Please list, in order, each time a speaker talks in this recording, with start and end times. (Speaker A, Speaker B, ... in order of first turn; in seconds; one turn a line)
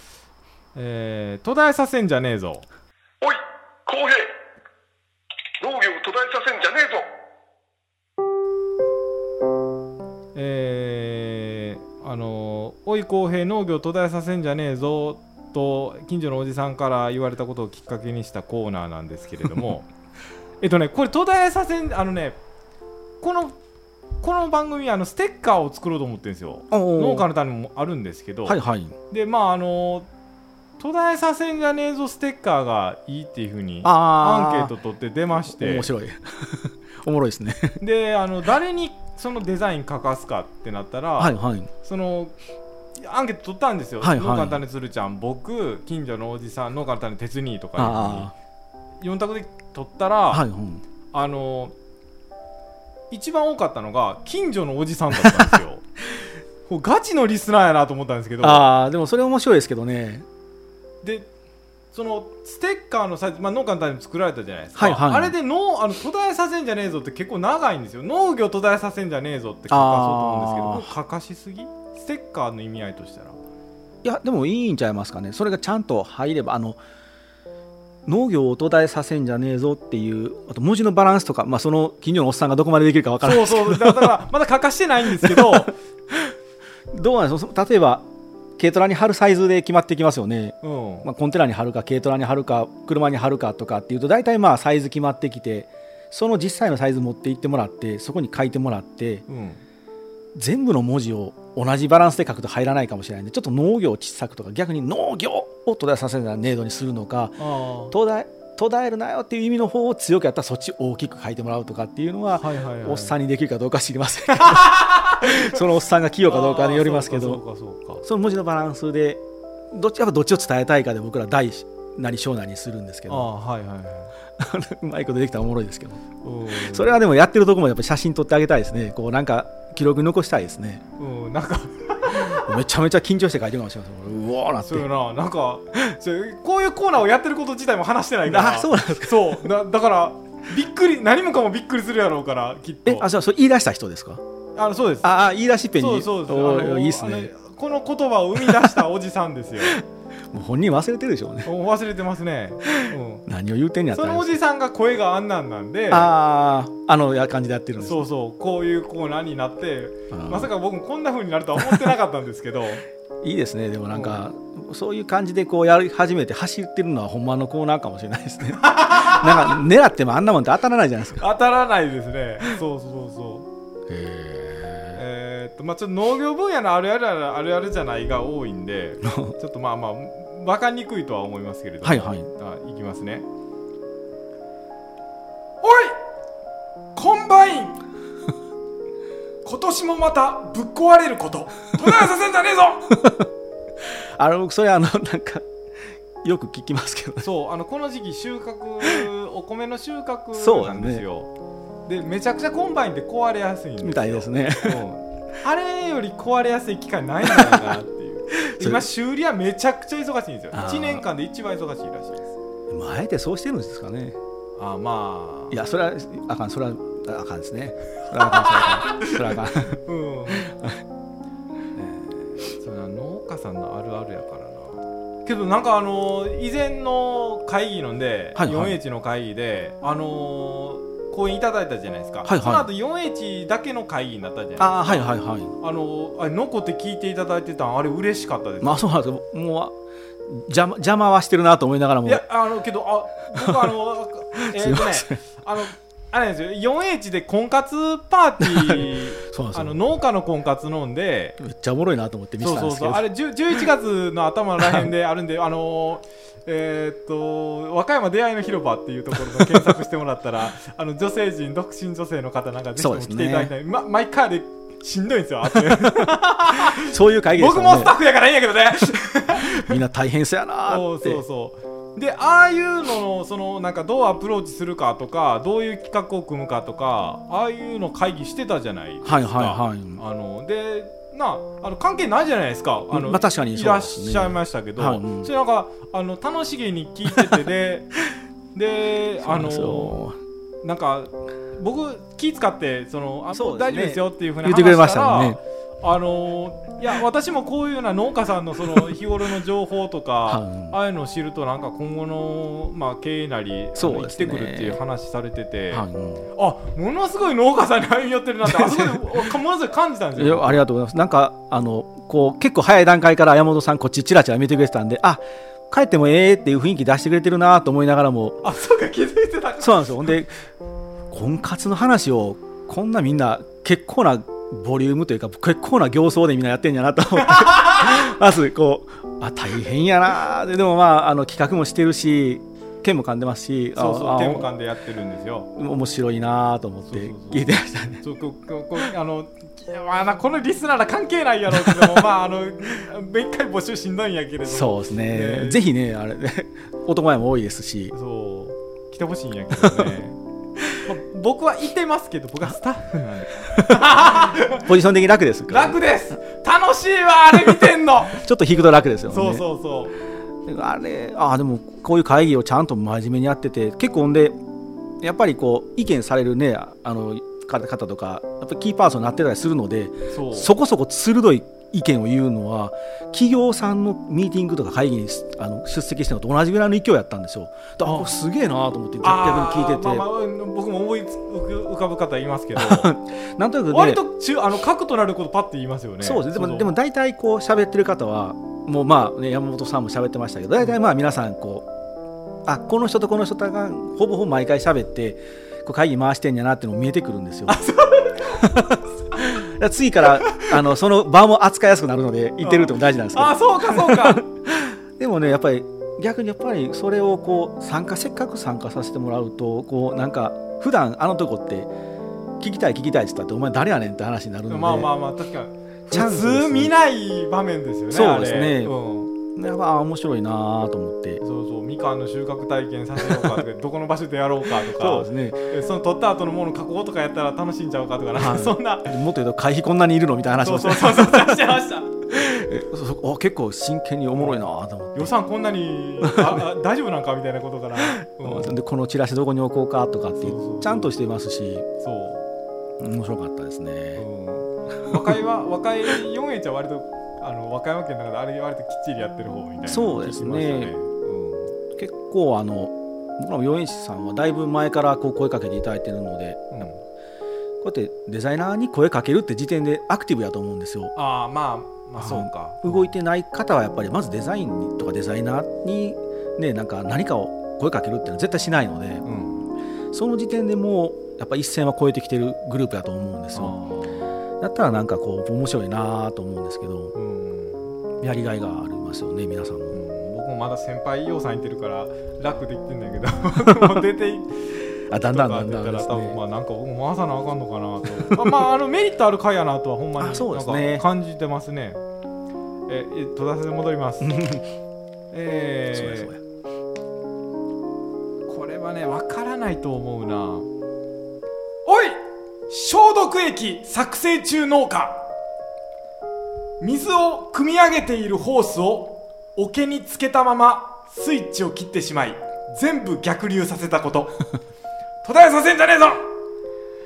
Speaker A: 0.8-2.7
Speaker B: 3.2-4.3
Speaker B: 5.6-7.1
Speaker A: 10.3-19.9
Speaker A: 20.6-22.4
Speaker A: 23.2-23.6
Speaker A: 24.2-28.6
Speaker C: 26.7-27.3
Speaker C: 28.5-28.9
Speaker A: 29.1-30.1
Speaker A: 30.8-35.9
Speaker C: 33.8-34.7
Speaker C: 35.5-37.8
Speaker A: 37.8-42.4
Speaker C: 41.2-41.7
Speaker A: 43.0-48.3
Speaker C: 44.0-44.6
Speaker C: 47.8-48.3
Speaker A: 49.0-50.5
Speaker C: 50.3-50.8
Speaker A: 51.1-51.7
Speaker A: 53.1-55.9
Speaker A: 56.7-58.7
Speaker C: 58.4-60.3
Speaker A: 61.0-61.3
Speaker A: 61.9-73.4
Speaker C: 64.8-65.3
Speaker C: 69.7-70.9
Speaker C: 74.0-76.8
Speaker C: 78.1-84.2
Speaker A: 83.2-85.7
Speaker C: 85.2-86.3
Speaker C: 86.9-88.1
Speaker C: 88.6-99.2
Speaker A: 90.6-91.1
Speaker A: 99.3-99.6
Speaker C: 100.3-117.4
Speaker A: 107.4-107.9
Speaker A: 112.4-113.2
Speaker A: 114.3-115.5
Speaker A: 116.3-118.0
Speaker C: 118.0-123.3
Speaker A: 123.1-124.1
Speaker C: 124.4-130.8
Speaker A: 126.2-127.0
Speaker A: 131.0-132.6
Speaker C: 132.1-134.9
Speaker A: 134.6-143.1
Speaker C: 138.3-139.5
Speaker C: 142.8-144.2
Speaker A: 144.6-145.1
Speaker C: 145.0-147.3
Speaker A: 145.8-149.8
Speaker C: 149.6-151.5
Speaker A: 151.4-153.2
Speaker C: 153.3-154.4
Speaker A: 153.9-156.1
Speaker C: 155.9-158.1
Speaker A: 157.8-162.8
Speaker C: 160.1-160.5
Speaker C: 161.6-161.9
Speaker C: 163.2-171.2
Speaker A: 163.9-164.2
Speaker A: 168.6-169.6
Speaker A: 171.2-173.5
Speaker C: 173.9-175.0
Speaker A: 174.9-183.3
Speaker C: 179.1-179.3
Speaker C: 181.8-182.3
Speaker A: 185.6-186.0
Speaker A: 186.9-187.8
Speaker A: 189.4-192.9
Speaker C: 192.9-193.3
Speaker C: 193.8-195.5
Speaker C: 196.2-197.3
Speaker A: 197.2-201.3
Speaker C: 200.3-201.1
Speaker A: 201.9-212.3
Speaker C: 203.8-204.8
Speaker C: 207.2-207.8
Speaker C: 208.3-208.9
Speaker C: 210.5-211.1
Speaker C: 212.7-214.2
Speaker A: 214.6-215.6
Speaker C: 215.5-220.8
Speaker A: 218.3-219.2
Speaker A: 219.8-220.5
Speaker A: 221.8-235.1
Speaker C: 228.4-228.8
Speaker C: 232.2-232.7
Speaker C: 234.6-235.5
Speaker A: 235.6-238.9
Speaker C: 238.6-242.2
Speaker A: 242.1-251.4
Speaker C: 243.3-243.8
Speaker C: 244.4-245.2
Speaker C: 248.4-249.8
Speaker C: 251.4-253.1
Speaker A: 252.4-269.8
Speaker C: 254.6-254.9
Speaker C: 262.8-263.5
Speaker C: 265.7-268.0
Speaker C: 269.5-271.2
Speaker A: 270.7-287.9
Speaker C: 279.0-280.0
Speaker C: 282.9-285.3
Speaker A: 288.5-290.0
Speaker C: 289.2-290.2
Speaker A: 290.6-310.6
Speaker C: 293.3-295.4
Speaker C: 300.3-300.8
Speaker C: 303.8-304.8
Speaker C: 305.7-306.3
Speaker C: 308.4-309.2
Speaker C: 310.1-318.4
Speaker A: 318.4-320.1
Speaker C: 319.6-320.3
Speaker C: 321.1-334.5
Speaker A: 327.2-327.9
Speaker A: 333.7-335.5
Speaker C: 335.6-338.0
Speaker A: 336.9-345.6
Speaker C: 341.5-342.1
Speaker C: 344.4-347.9
Speaker A: 347.9-350.2
Speaker C: 349.6-349.9
Speaker A: 350.8-354.7
Speaker C: 353.7-355.8
Speaker A: 355.5-358.2
Speaker C: 357.3-359.4
Speaker A: 359.1-359.9
Speaker C: 360.4-364.4
Speaker C: 365.0-380.1
Speaker A: 370.1-370.5
Speaker A: 377.8-378.1
Speaker A: 379.0-382.9
Speaker C: 382.6-384.0
Speaker A: 383.7-386.7
Speaker C: 386.0-391.7
Speaker C: 392.4-397.6
Speaker A: 397.5-398.6
Speaker C: 398.2-411.7
Speaker A: 402.4-404.2
Speaker C: 412.4-414.9
Speaker A: 414.5-419.1
Speaker C: 415.9-416.7
Speaker C: 417.9-418.8
Speaker C: 419.3-421.2
Speaker A: 421.2-428.9
Speaker C: 423.0-423.3
Speaker C: 424.6-425.5
Speaker C: 428.1-431.5
Speaker A: 430.4-431.9
Speaker C: 432.1-435.1
Speaker A: 434.2-438.6
Speaker C: 436.0-436.5
Speaker C: 437.8-441.7
Speaker A: 440.2-440.9
Speaker A: 441.8-442.3
Speaker C: 442.8-444.1
Speaker A: 444.0-451.5
Speaker C: 449.7-450.7
Speaker C: 451.7-456.6
Speaker A: 456.5-456.8
Speaker C: 457.6-460.9
Speaker A: 461.0-462.9
Speaker C: 462.0-469.1
Speaker A: 469.1-469.5
Speaker C: 469.9-473.6
Speaker A: 473.3-474.1
Speaker C: 474.4-476.9
Speaker A: 476.9-477.7
Speaker C: 478.0-479.8
Speaker A: 479.7-491.8
Speaker C: 484.9-486.2
Speaker C: 488.0-488.3
Speaker C: 490.0-490.9
Speaker A: 492.7-494.2
Speaker C: 494.0-494.5
Speaker A: 495.1-496.1
Speaker C: 495.7-496.2
Speaker A: 498.3-500.5
Speaker A: 501.7-505.1
Speaker A: 506.6-514.3
Speaker A: 515.0-516.1